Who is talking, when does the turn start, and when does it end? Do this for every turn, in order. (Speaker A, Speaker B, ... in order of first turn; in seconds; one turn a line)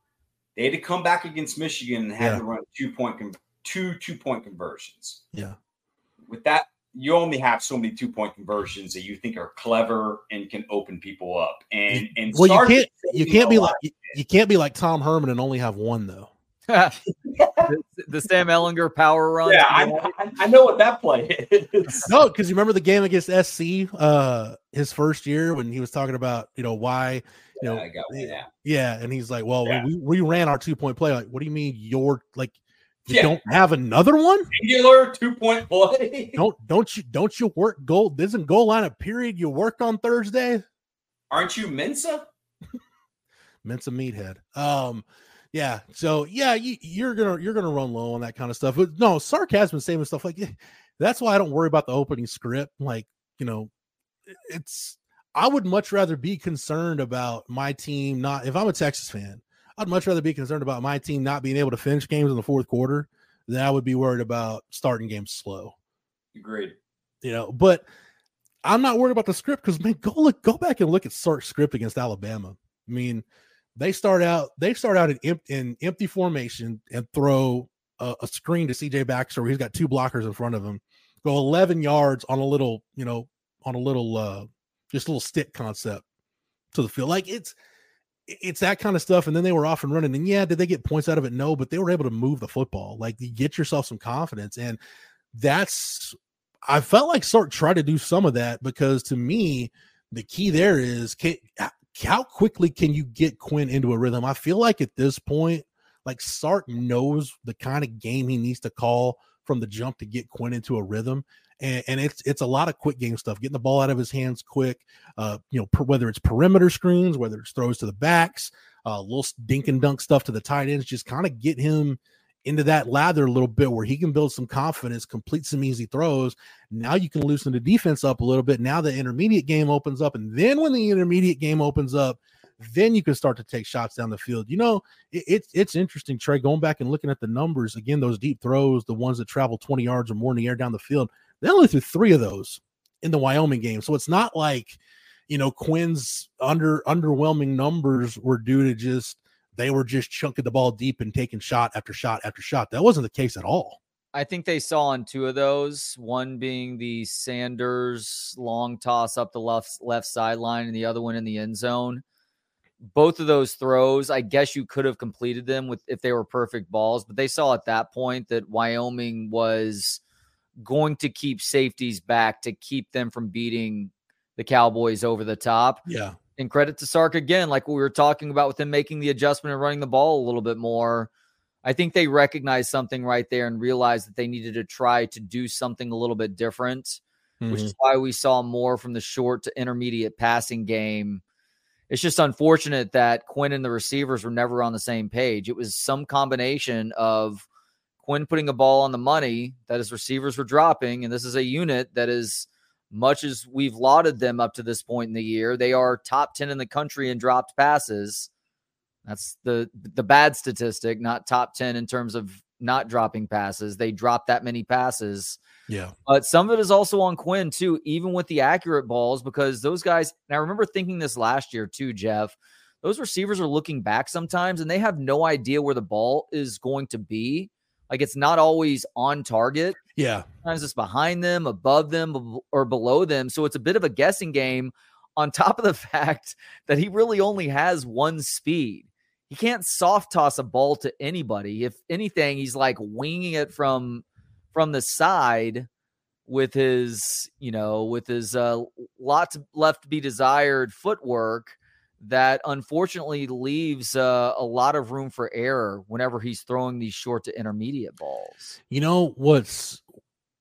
Speaker A: 0.6-5.2
Speaker A: 6.3-14.2
Speaker B: 11.9-16.3
Speaker C: 16.7-17.0
Speaker A: 17.2-17.7
Speaker C: 17.7-20.1
Speaker A: 19.4-22.1
Speaker B: 22.1-34.5
Speaker A: 27.6-28.5
Speaker A: 33.1-33.4
Speaker A: 34.5-36.4
Speaker B: 36.4-40.6
Speaker A: 41.3-42.3
Speaker B: 43.6-53.7
Speaker B: 54.4-65.7
Speaker A: 66.3-66.8
Speaker B: 67.2-67.8
Speaker B: 68.6-73.2
Speaker B: 73.8-86.0
Speaker B: 86.7-87.5
Speaker B: 88.3-94.8
Speaker B: 95.3-96.1
Speaker B: 96.7-153.8
Speaker C: 154.1-162.0
Speaker C: 162.8-170.0
Speaker C: 170.6-175.8
Speaker B: 175.8-176.2
Speaker C: 176.3-181.1
Speaker C: 181.6-191.2
Speaker B: 187.4-187.7
Speaker C: 191.9-197.4
Speaker C: 198.0-208.3
Speaker C: 209.1-215.4
Speaker B: 215.7-215.9
Speaker C: 216.1-229.8
Speaker B: 229.9-230.2
Speaker C: 230.4-245.7
Speaker C: 246.3-258.6
Speaker B: 258.7-259.8